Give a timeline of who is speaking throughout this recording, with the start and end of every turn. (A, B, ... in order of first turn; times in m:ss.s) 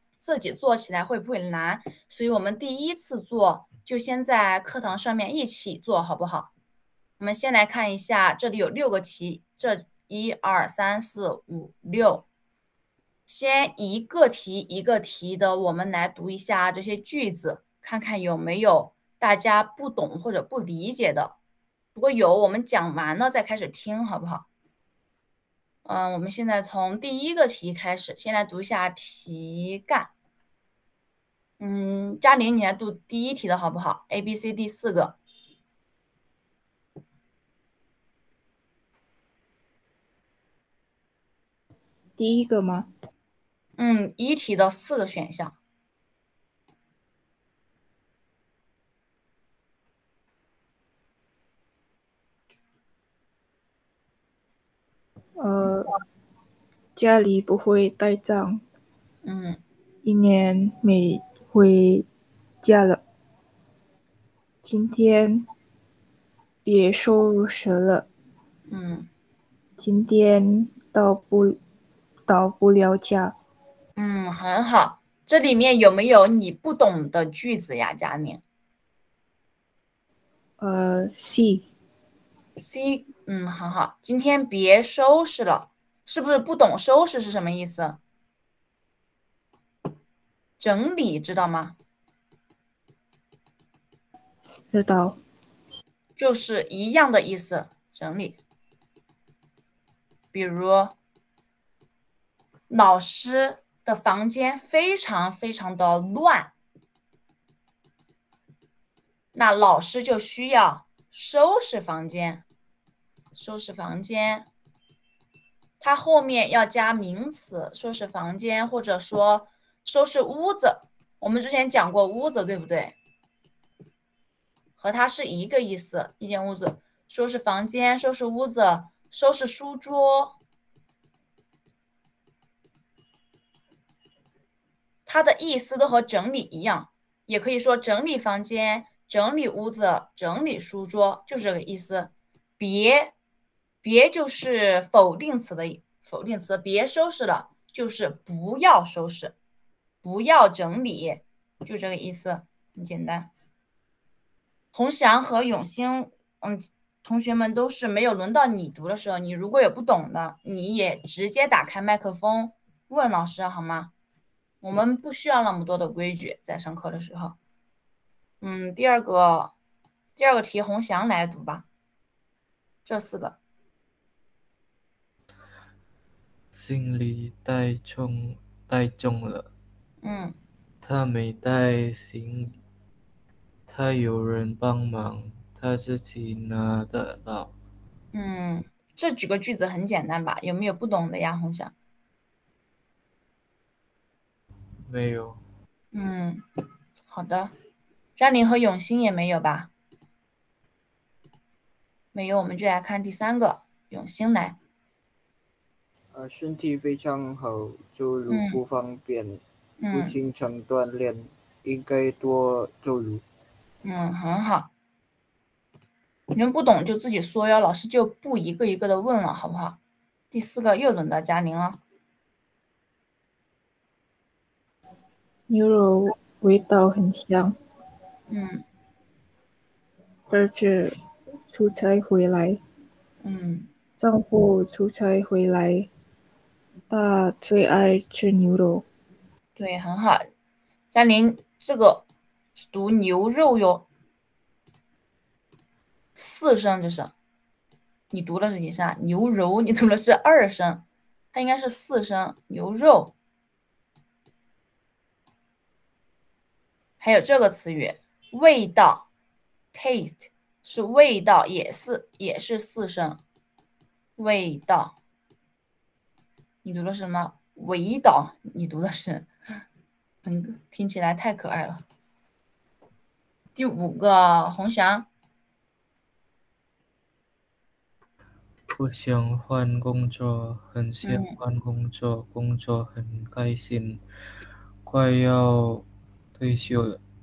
0:00.2-0:06.5 A
0:07.2-0:12.2 A
0:13.3-0:21.4 A
0:21.9-0:24.4 A
0:25.8-0:30.1 A
0:31.6-0:35.2 A
0:42.2-0:42.9 B
0:43.8-0:45.6 A
0:55.4-0:55.9 B
0:57.0-0:58.6 B
0:59.2-0:59.6 A
1:00.0-1:02.1 B
1:02.6-1:03.0 B
1:04.6-1:05.5 B
1:06.6-1:08.1 B
1:08.7-1:09.1 A
1:09.8-1:11.6 B
1:12.3-1:13.3 B
1:14.0-1:18.4 A
1:20.6-1:21.6 B
1:22.6-1:28.0 A
1:30.6-1:31.8 A
1:34.7-1:35.2 B
1:36.2-1:38.4 A
1:40.3-1:40.9 A
1:42.7-1:46.5 A
1:49.3-1:52.4 A
1:53.3-1:54.5 A
1:55.8-2:03.0 A
2:04.8-2:10.4 A
2:15.0-2:23.1 A
2:23.8-2:29.3 A
2:30.0-2:33.3 A
2:34.7-2:43.9 A
2:44.6-2:47.4 A
2:48.4-2:49.5 A
2:50.2-2:51.6 A
2:52.8-2:53.4 A
2:56.5-2:59.5 C
3:00.0-3:00.4 A
3:00.8-3:02.6 C
3:03.7-3:07.5 C
3:08.1-3:11.7 A
3:14.9-3:15.4 C
3:15.9-3:16.4 A
3:17.1-3:17.5 A
3:18.2-3:19.7 A
3:22.1-3:24.6 A
3:26.1-3:33.2 D
3:28.3-3:28.6 A
3:29.8-3:30.2 A
3:33.8-3:34.7 A
3:36.3-3:39.8 A
3:40.3-3:41.8 A
3:45.5-3:47.6 B
3:48.3-3:48.6 A
3:50.3-3:50.9 B
3:51.5-3:52.6 B
3:53.2-3:53.7 A
3:54.0-3:55.9 B
3:56.9-3:58.8 B
3:59.6-4:00.2 A
4:00.9-4:02.0 A
4:02.6-4:03.8 A
4:06.2-4:07.1 A
4:08.1-4:13.1 A
4:17.0-4:19.1 A
4:19.7-4:23.2 A
4:24.2-4:25.0 A
4:26.6-4:29.3 A
4:30.2-4:31.8 A
4:33.6-4:35.1 A
4:38.8-4:44.0 C
4:41.0-4:41.4 A
4:44.8-4:47.0 C